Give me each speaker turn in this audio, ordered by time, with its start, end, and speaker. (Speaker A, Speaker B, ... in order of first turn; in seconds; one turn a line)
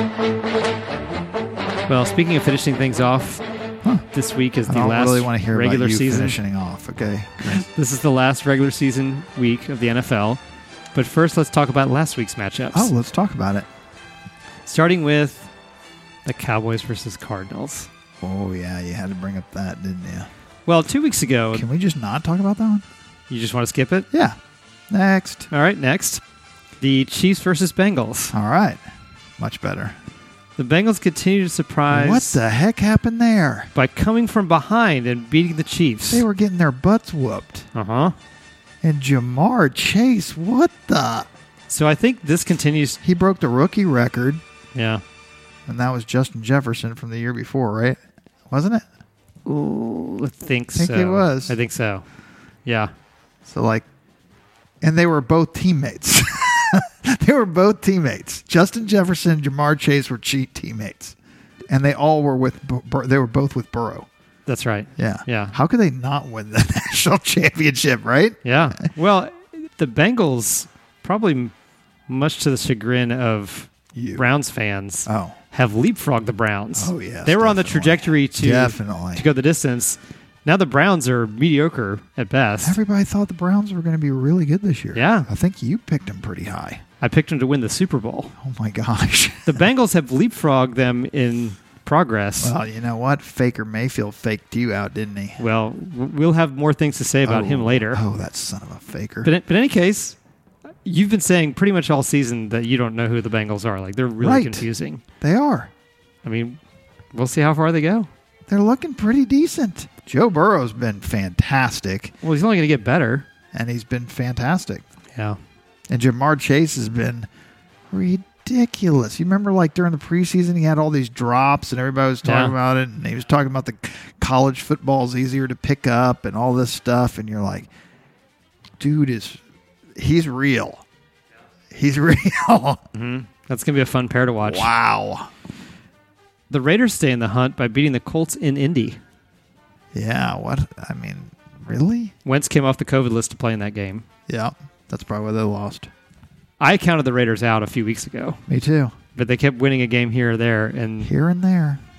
Speaker A: 1.9-3.4
Speaker A: 4.1-6.4
Speaker B: 4.7-7.7
Speaker A: 7.5-10.4
Speaker A: 10.9-12.9
Speaker B: 12.7-13.7
Speaker A: 14.7-15.5
Speaker A: 16.2-17.9
Speaker B: 18.2-20.3
Speaker A: 20.7-21.7
Speaker B: 21.5-22.8
Speaker A: 23.3-24.1
Speaker B: 24.1-24.4
Speaker B: 24.9-25.5
Speaker A: 25.5-26.2
Speaker A: 26.8-28.3
Speaker B: 28.3-28.8
Speaker B: 29.4-29.9
Speaker A: 30.6-32.4
Speaker B: 31.9-33.7
Speaker A: 33.8-36.2
Speaker B: 36.1-37.7
Speaker A: 37.7-38.1
Speaker B: 38.8-41.3
Speaker A: 41.7-43.0
Speaker B: 43.0-44.4
Speaker A: 44.8-45.0
Speaker B: 45.7-48.0
Speaker B: 48.5-48.8
Speaker A: 49.5-52.0
Speaker B: 50.7-51.5
Speaker A: 52.6-52.9
Speaker B: 53.5-53.8
Speaker B: 54.8-61.2
Speaker B: 61.7-64.1
Speaker A: 64.5-65.5
Speaker B: 65.0-68.8
Speaker A: 68.4-71.5
Speaker A: 72.1-82.8
Speaker B: 73.9-74.3
Speaker B: 75.1-75.3
Speaker B: 76.7-79.2
Speaker B: 82.6-86.8
Speaker A: 84.9-85.3
Speaker A: 87.0-88.3
Speaker B: 88.4-89.6
Speaker A: 89.5-92.5
Speaker B: 92.4-95.4
Speaker A: 95.4-98.0
Speaker B: 97.2-99.3
Speaker A: 99.2-100.2
Speaker A: 100.8-105.0
Speaker B: 104.2-104.7
Speaker B: 105.2-105.7
Speaker A: 106.2-106.6
Speaker A: 107.1-108.1
Speaker B: 108.5-112.1
Speaker A: 112.2-113.2
Speaker B: 113.5-114.8
Speaker B: 115.9-117.3
Speaker B: 117.9-127.7
Speaker A: 122.2-122.5
Speaker B: 128.8-129.4
Speaker B: 130.0-130.8
Speaker B: 131.7-132.8
Speaker A: 132.9-134.7
Speaker B: 134.4-135.3
Speaker A: 136.5-139.0
Speaker B: 139.9-142.1
Speaker A: 142.2-144.0
Speaker B: 144.3-145.9
Speaker A: 146.6-148.4
Speaker B: 148.5-148.9
Speaker A: 149.2-151.1
Speaker B: 151.0-151.8